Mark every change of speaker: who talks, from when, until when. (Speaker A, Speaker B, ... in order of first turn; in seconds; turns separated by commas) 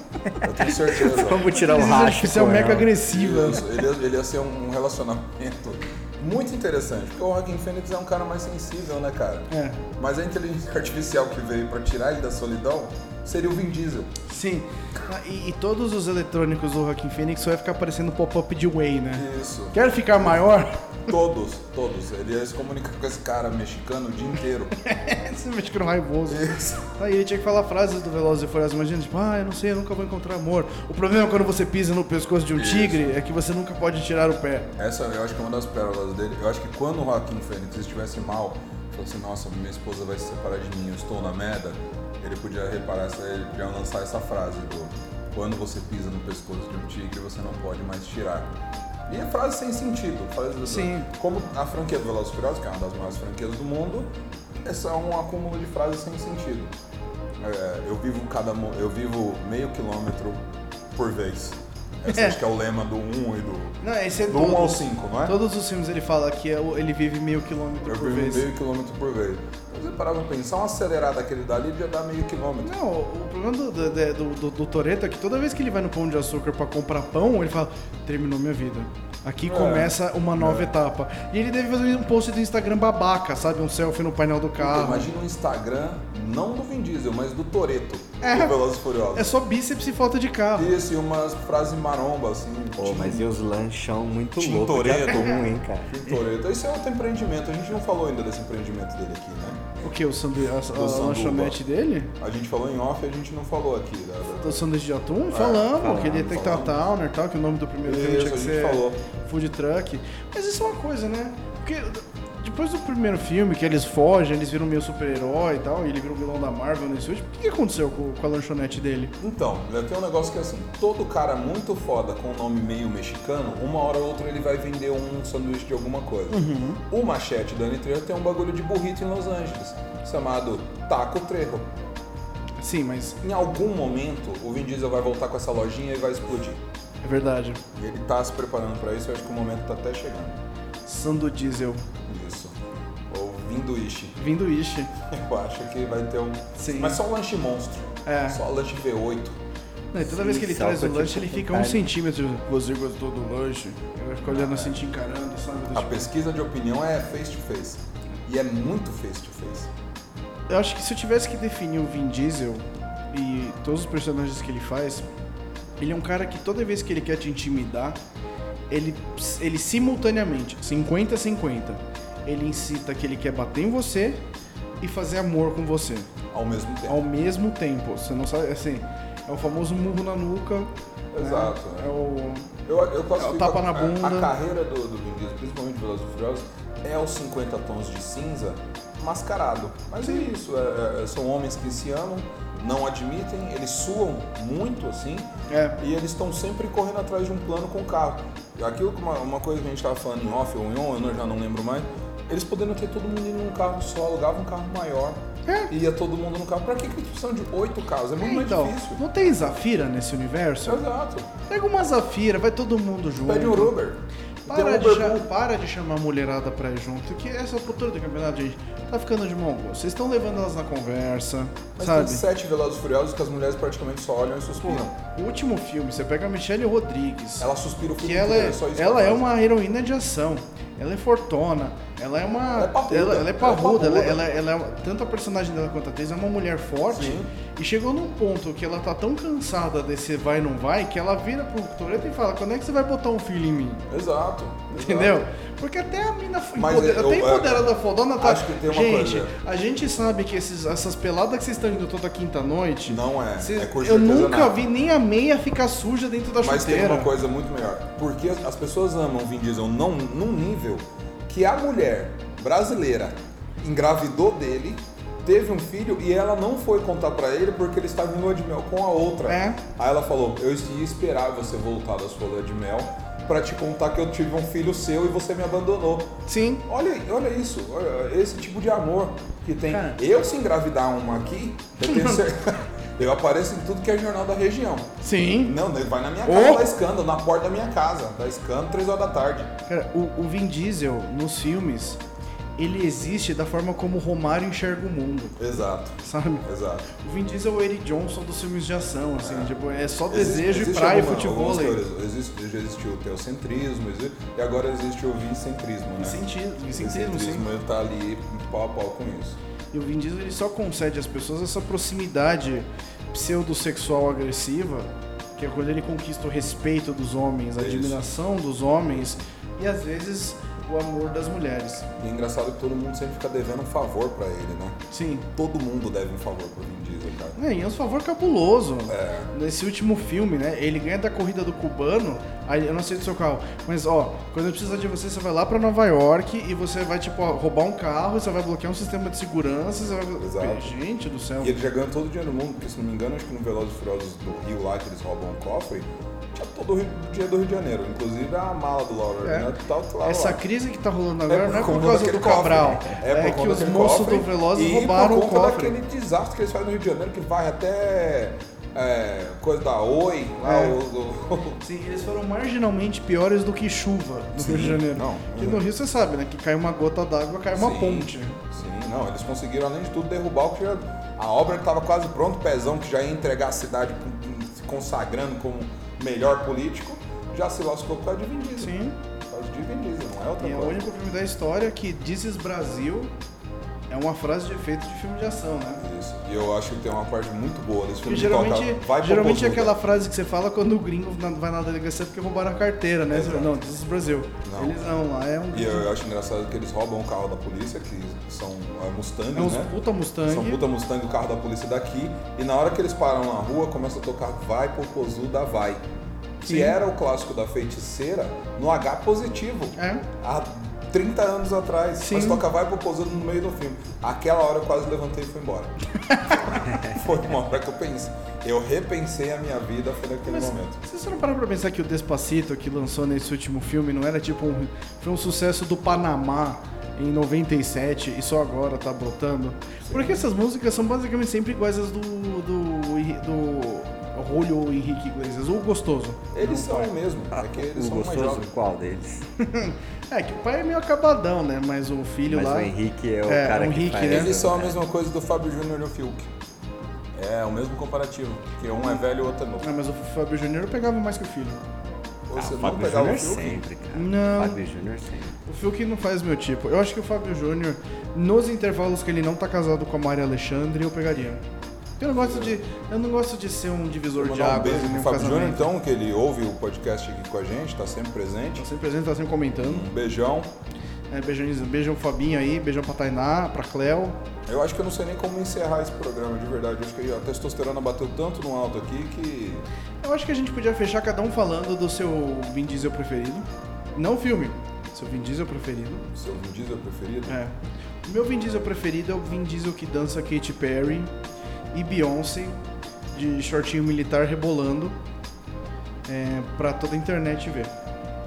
Speaker A: 0.4-1.5, Speaker B: 0.9-2.9, Speaker C: 1.3-3.7, Speaker A: 3.1-14.1, Speaker C: 9.5-9.8, Speaker C: 14.3-21.1, Speaker A: 19.1-19.8, Speaker A: 21.1-24.7, Speaker C: 24.8-34.7, Speaker A: 26.3-26.9, Speaker A: 32.5-33.1, Speaker A: 34.8-48.5, Speaker A: 49.1-54.1, Speaker C: 50.6-51.1, Speaker A: 54.6-56.7, Speaker A: 57.4-60.4, Speaker A: 60.9-65.4, Speaker C: 62.1-62.4, Speaker C: 63.8-68.5, Speaker A: 67.8-72.7, Speaker C: 72.6-85.1, Speaker A: 79.4-80.7, Speaker A: 84.6-89.3, Speaker C: 88.2-88.6, Speaker C: 89.1-90.7, Speaker A: 90.5-93.3, Speaker B: 92.8-96.0, Speaker A: 94.4-99.7, Speaker C: 99.8-102.1, Speaker A: 100.7-101.6, Speaker A: 102.2-104.6, Speaker C: 104.3-119.1, Speaker A: 105.3-106.8, Speaker B: 105.8-106.3, Speaker A: 107.8-109.0, Speaker A: 119.2-131.7, Speaker C: 126.3-126.8, Speaker C: 132.6-133.2, Speaker A: 133.2-136.6, Speaker C: 137.0-137.6, Speaker A: 137.7-140.3, Speaker C: 140.8-141.8, Speaker A: 142.1-142.5, Speaker A: 143.1-144.2, Speaker C: 144.2-144.9, Speaker A: 145.1-149.4, Speaker C: 146.6-147.0, Speaker C: 148.0-148.4, Speaker C: 149.9-156.1, Speaker B: 150.0-151.8, Speaker A: 154.2-154.8, Speaker A: 155.7-159.7, Speaker C: 160.5-165.1, Speaker C: 165.8-168.0, Speaker C: 168.7-174.2, Speaker C: 174.8-176.1, Speaker A: 176.3-177.0, Speaker C: 176.9-182.5, Speaker A: 181.1-181.9, Speaker A: 182.7-205.2, Speaker C: 183.1-184.3, Speaker C: 190.0-190.3, Speaker C: 195.5-195.8, Speaker C: 205.5-205.7, Speaker A: 205.7-209.0, Speaker C: 208.2-210.8, Speaker A: 210.6-211.3, Speaker C: 211.5-213.8, Speaker A: 213.2-215.3, Speaker C: 214.4-222.2, Speaker A: 221.8-224.9, Speaker C: 224.6-227.5, Speaker A: 227.4-229.3, Speaker C: 228.0-243.9, Speaker A: 232.5-234.2, Speaker A: 236.9-237.3, Speaker A: 243.9-245.2, Speaker C: 244.7-257.1, Speaker A: 246.5-249.3, Speaker A: 252.8-254.6, Speaker A: 256.4-276.1, Speaker C: 269.3-269.6, Speaker C: 276.2-276.6, Speaker A: 276.6-289.5, Speaker C: 279.7-280.0, Speaker C: 281.8-282.2, Speaker C: 285.0-285.6, Speaker C: 286.2-286.7, Speaker C: 289.7-292.0, Speaker C: 292.6-295.4, Speaker A: 295.4-296.9, Speaker C: 296.0-301.8, Speaker A: 299.2-299.5, Speaker A: 300.1-306.2, Speaker C: 306.0-307.4, Speaker A: 306.7-309.4, Speaker C: 309.7-321.9, Speaker A: 317.6-318.0, Speaker A: 322.0-324.8, Speaker C: 324.9-325.3, Speaker A: 325.3-327.4, Speaker C: 327.3-341.6, Speaker A: 328.9-329.3, Speaker A: 340.2-340.7, Speaker A: 341.4-350.4, Speaker C: 349.2-349.5, Speaker C: 350.0-355.8, Speaker A: 351.3-361.6, Speaker C: 360.4-360.8, Speaker C: 361.6-368.4, Speaker A: 364.4-365.6, Speaker A: 367.5-378.8, Speaker C: 378.6-378.9, Speaker A: 379.3-380.8, Speaker C: 380.4-383.1, Speaker C: 383.9-385.8, Speaker A: 385.8-389.8, Speaker C: 388.1-395.9, Speaker A: 393.1-393.6, Speaker A: 394.4-394.8, Speaker A: 395.5-405.8, Speaker C: 399.3-400.6, Speaker A: 406.4-415.7, Speaker C: 406.4-406.7, Speaker C: 409.8-410.0, Speaker C: 412.0-412.4, Speaker C: 416.0-416.5, Speaker A: 416.2-420.8, Speaker C: 420.2-436.9, Speaker A: 429.8-430.3, Speaker A: 436.3-438.5, Speaker B: 437.3-439.2, Speaker C: 439.4-442.7, Speaker B: 442.3-444.8, Speaker C: 443.2-444.3, Speaker A: 444.0-446.3, Speaker A: 447.1-449.7, Speaker C: 449.6-451.6, Speaker A: 452.3-453.6, Speaker B: 452.3-455.4, Speaker C: 453.9-454.6, Speaker C: 455.4-461.4, Speaker C: 462.0-465.7, Speaker A: 462.1-462.6, Speaker A: 464.1-468.6, Speaker C: 468.6-469.9, Speaker A: 469.5-470.5, Speaker C: 471.1-474.2, Speaker A: 474.5-479.6, Speaker C: 480.0-486.1, Speaker A: 486.1-487.4, Speaker C: 487.2-491.1, Speaker C: 491.7-492.6, Speaker C: 493.1-494.9, Speaker C: 496.1-497.7